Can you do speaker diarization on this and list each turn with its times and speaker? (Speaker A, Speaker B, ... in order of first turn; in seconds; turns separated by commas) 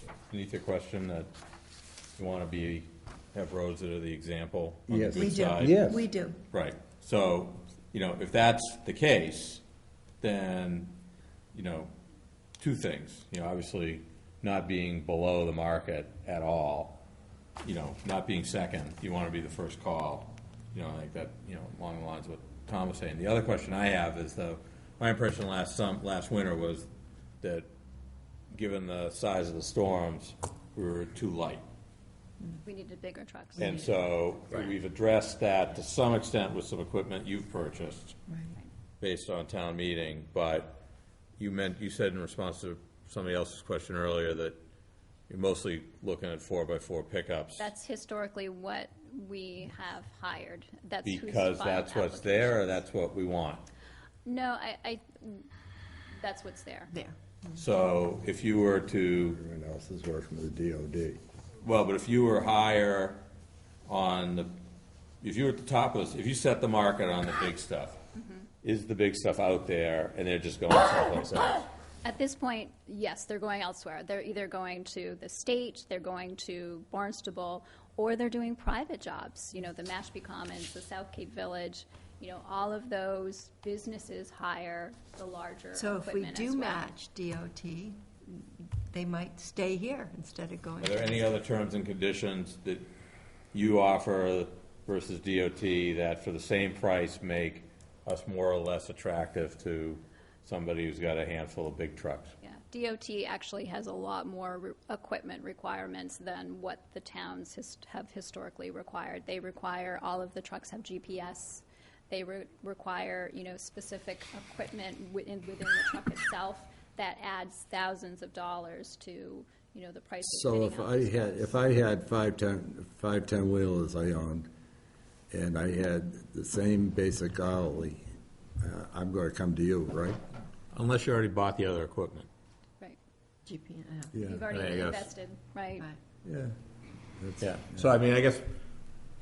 Speaker A: 0.3-1.3, Speaker A: 2.2-9.6, Speaker B: 4.9-6.0, Speaker C: 5.1-6.4, Speaker A: 10.2-11.0, Speaker A: 11.5-11.9, Speaker A: 12.6-17.0, Speaker A: 17.6-26.9, Speaker A: 27.4-27.7, Speaker A: 28.5-31.6, Speaker D: 32.6-33.9, Speaker A: 33.6-38.2, Speaker A: 39.0-40.8, Speaker A: 41.4-44.6, Speaker A: 45.3-47.7, Speaker D: 47.6-52.8, Speaker A: 51.0-53.6, Speaker D: 54.2-55.5, Speaker D: 56.1-56.9, Speaker C: 56.9-57.6, Speaker A: 57.5-59.4, Speaker B: 59.4-61.2, Speaker A: 61.6-63.2, Speaker A: 63.9-64.5, Speaker A: 65.2-68.0, Speaker A: 68.6-71.7, Speaker D: 72.0-86.8, Speaker C: 85.7-91.2, Speaker A: 90.8-92.9, Speaker A: 93.5-102.3, Speaker D: 102.4-121.6, Speaker B: 120.3-124.5, Speaker B: 125.3-128.0, Speaker B: 128.6-130.2, Speaker A: 130.7-132.3, Speaker C: 133.4-134.3, Speaker B: 134.1-134.5, Speaker D: 134.2-135.9, Speaker A: 134.5-135.1, Speaker B: 136.2-136.5, Speaker B: 137.2-137.5, Speaker A: 137.4-138.5